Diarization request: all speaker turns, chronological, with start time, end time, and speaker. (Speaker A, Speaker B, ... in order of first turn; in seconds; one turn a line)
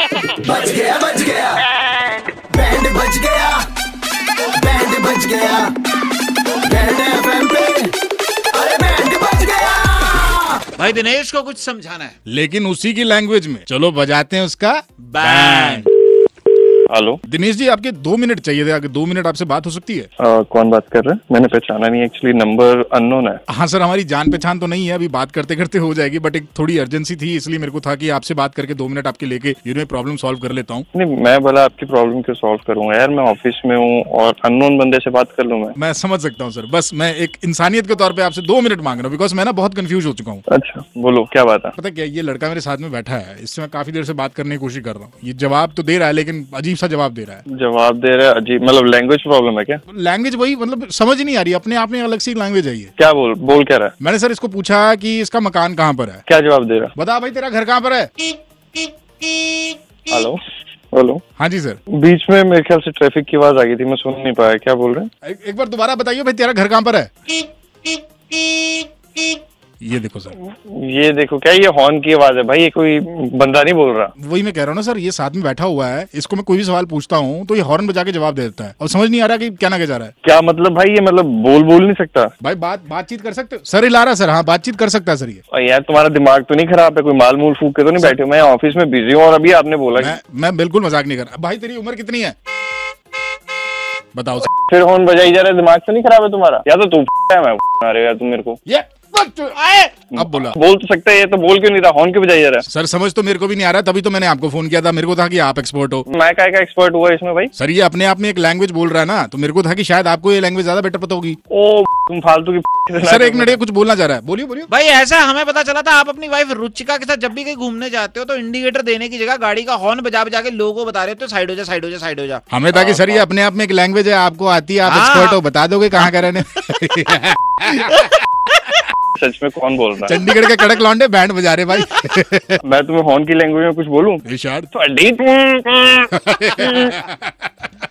Speaker A: 0.4-3.7
Speaker A: 4.5-5.7
Speaker A: 6.6-7.9
Speaker A: 8.5-10.6
Speaker B: 10.8-12.2
Speaker C: 12.3-15.9
Speaker B: 15.0-15.9
Speaker D: 16.9-17.2
Speaker C: 17.3-20.1
Speaker D: 20.2-23.4
Speaker C: 23.5-30.9
Speaker D: 30.9-35.8
Speaker C: 35.8-40.5
Speaker D: 40.5-41.8
Speaker C: 41.8-47.4
Speaker D: 47.5-49.8
Speaker C: 49.9-52.9
Speaker D: 53.0-53.9
Speaker C: 54.0-56.2
Speaker D: 56.3-56.9
Speaker C: 57.0-58.1
Speaker D: 60.1-60.4
Speaker D: 60.9-61.2
Speaker C: 61.4-61.8
Speaker D: 61.9-65.1
Speaker C: 65.2-67.1
Speaker B: 68.3-68.9
Speaker C: 69.8-70.4
Speaker D: 70.4-74.1
Speaker C: 74.2-80.1
Speaker D: 80.2-82.3
Speaker C: 82.4-85.4
Speaker D: 85.5-90.1
Speaker C: 90.0-92.3
Speaker C: 94.2-94.5
Speaker D: 94.7-98.6
Speaker C: 98.7-99.6
Speaker B: 99.5-99.9
Speaker C: 100.1-100.6
Speaker D: 100.1-102.7
Speaker C: 102.7-106.1
Speaker D: 106.1-107.5
Speaker C: 107.6-111.4
Speaker D: 111.5-113.6
Speaker C: 113.0-114.7
Speaker B: 114.7-122.5
Speaker C: 122.5-128.1
Speaker D: 122.7-123.2
Speaker B: 124.8-125.4
Speaker D: 129.2-130.2
Speaker C: 130.1-132.6
Speaker D: 132.7-137.0
Speaker C: 134.2-134.7
Speaker C: 136.1-137.7